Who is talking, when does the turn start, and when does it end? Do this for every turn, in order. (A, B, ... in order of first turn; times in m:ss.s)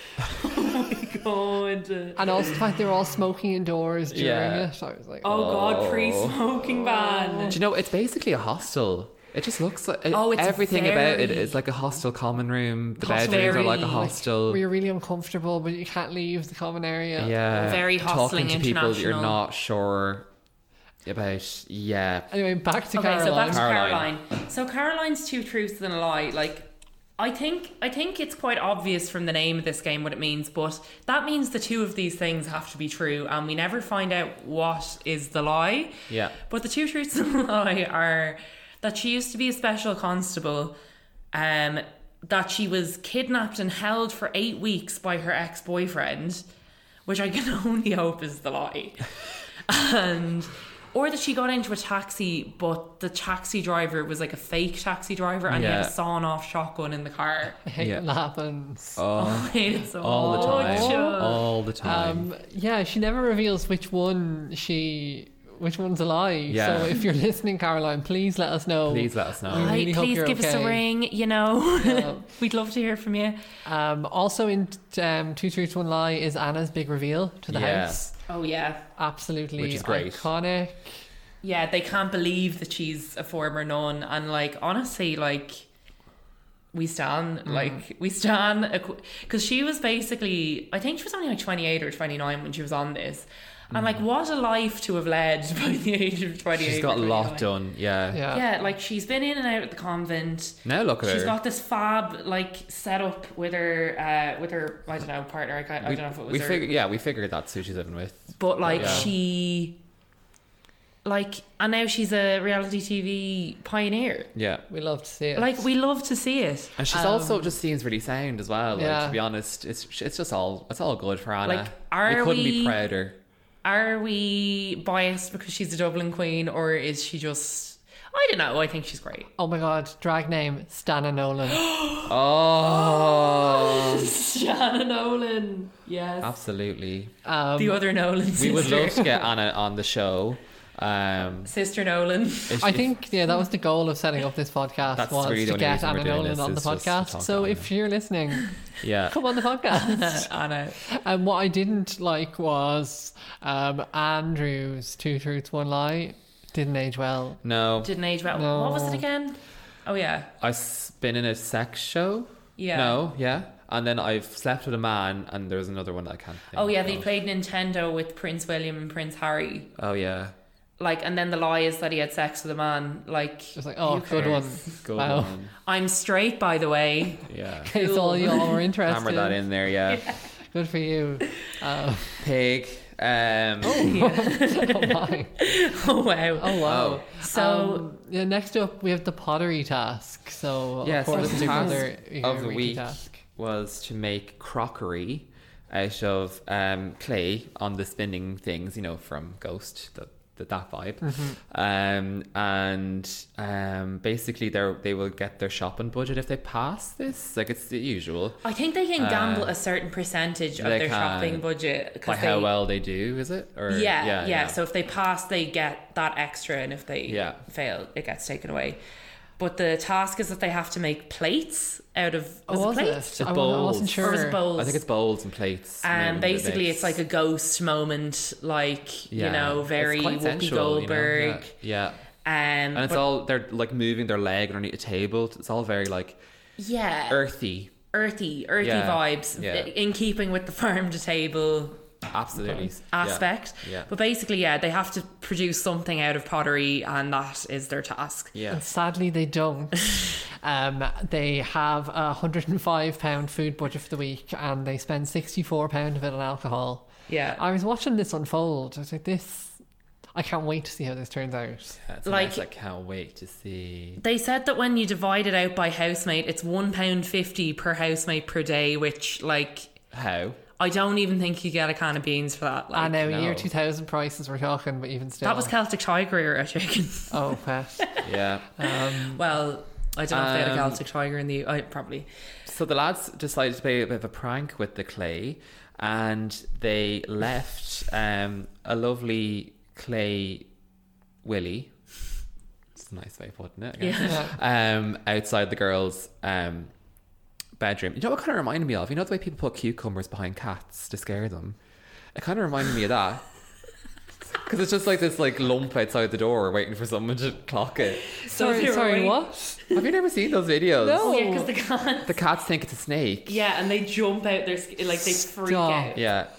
0:00.2-0:02.6 A
0:02.2-0:05.4 B
0:04.1-0:04.7 C
0:05.2-0:07.6 A
0:05.2-0:06.4 C
0:06.9-0:07.6 B
0:07.5-0:14.6 C
0:10.1-0:11.6 A
0:13.0-0:17.4 B
0:13.1-0:14.1 A
0:17.2-0:20.3 C
0:17.5-0:19.4 A
0:21.0-0:22.3 C
0:22.3-0:23.6 B
0:23.0-0:40.8 A
0:23.4-0:24.1 C
0:36.1-0:36.4 C
0:41.3-0:46.4 A
0:47.1-0:49.2 A
0:49.7-0:57.6 A
0:55.5-0:56.0 C
0:57.6-0:59.0 B
0:57.8-0:58.0 C
0:59.0-1:02.3 C
0:59.2-1:01.5 A
1:00.2-1:01.2 B
1:01.8-1:10.8 B
1:06.5-1:07.0 C
1:08.9-1:09.8 C
1:09.5-1:13.4 A
1:11.8-1:12.2 B
1:13.6-1:18.1 B
1:17.5-1:18.1 C
1:18.3-1:18.8 A
1:19.0-1:21.0 B
1:19.6-1:20.3 C
1:21.4-1:25.7 A
1:26.7-1:37.5 A
1:27.5-1:27.8 B
1:33.7-1:34.0 C
1:36.6-1:38.2 C
1:38.1-1:38.4 B
1:38.3-1:46.7 A
1:40.6-1:41.4 C
1:45.8-1:49.1 C
1:48.4-1:49.8 A
1:48.7-1:49.1 B
1:51.0-1:54.3 A
1:54.4-1:54.6 C
1:54.7-1:55.6 B
1:55.4-1:56.8 A
1:56.8-2:03.2 C
1:56.9-1:57.5 B
1:58.8-1:59.2 B
2:01.4-2:02.8 A
2:03.6-2:09.3 A
2:09.4-2:11.7 B
2:11.5-2:16.4 A
2:12.1-2:14.1 C
2:16.2-2:17.1 C
2:17.2-2:17.8 B
2:17.6-2:19.2 A
2:18.4-2:21.5 C
2:21.4-2:22.7 A
2:22.5-2:22.9 C
2:22.6-2:28.6 B
2:25.0-2:27.7 C
2:28.8-2:29.2 C
2:29.1-2:30.3 B
2:29.7-2:30.8 A
2:30.8-2:37.4 B
2:37.4-2:37.9 C
2:37.8-2:40.3 A
2:38.3-2:39.0 B
2:40.4-2:47.1 C
2:42.6-2:43.0 A
2:46.5-2:49.7 A
2:49.8-2:50.4 C
2:50.8-2:54.8 A
2:53.6-2:55.4 B
2:54.2-2:55.6 C
2:55.6-2:58.6 A
2:57.3-2:57.7 C
2:57.6-2:59.4 B
2:58.9-3:00.1 C
2:59.9-3:00.2 A
3:00.4-3:02.2 B
3:02.2-3:03.9 C
3:03.6-3:05.4 B
3:03.7-3:07.9 A
3:06.4-3:13.2 B
3:06.6-3:07.0 C
3:10.8-3:28.4 C
3:11.1-3:11.8 A
3:21.0-3:21.4 B
3:28.4-3:32.5 A
3:29.0-3:29.6 C
3:30.6-3:31.4 C
3:32.0-3:34.6 C
3:33.7-3:38.8 A
3:37.1-3:37.4 C
3:39.4-3:43.2 A
3:42.5-3:44.4 B
3:43.2-3:47.0 C
3:44.0-3:44.8 A
3:45.8-3:51.5 A
3:49.1-3:52.0 C
3:52.2-3:53.0 A
3:52.7-3:56.2 C
3:56.6-3:57.2 A
3:57.1-3:57.8 C
3:57.9-4:01.8 A
3:58.6-3:59.7 C
4:02.1-4:03.9 C
4:02.9-4:08.3 A
4:08.3-4:08.6 C
4:08.5-4:19.6 B
4:17.1-4:17.4 A
4:20.2-4:21.8 B
4:21.8-4:24.0 C
4:22.0-4:22.4 A
4:24.0-4:29.8 A
4:29.9-4:30.4 C
4:30.6-4:33.0 A
4:32.7-4:35.5 B
4:33.0-4:33.5 C
4:35.2-4:38.1 A
4:37.1-4:38.0 B
4:38.0-4:38.5 C
4:38.6-4:39.2 B
4:38.6-4:42.1 A
4:40.1-4:40.8 C
4:42.5-4:50.5 C
4:51.2-4:51.7 C
4:52.8-4:56.7 C
4:53.8-4:54.3 A
4:54.0-4:54.3 B
4:57.6-5:01.6 C
5:02.1-5:03.2 C
5:04.4-5:08.0 C
5:08.0-5:09.9 A
5:08.3-5:09.6 B
5:09.7-5:11.1 C
5:10.8-5:11.5 B
5:11.0-5:12.2 A
5:12.0-5:13.4 C
5:13.3-5:16.0 A
5:15.0-5:16.0 B
5:16.0-5:16.3 C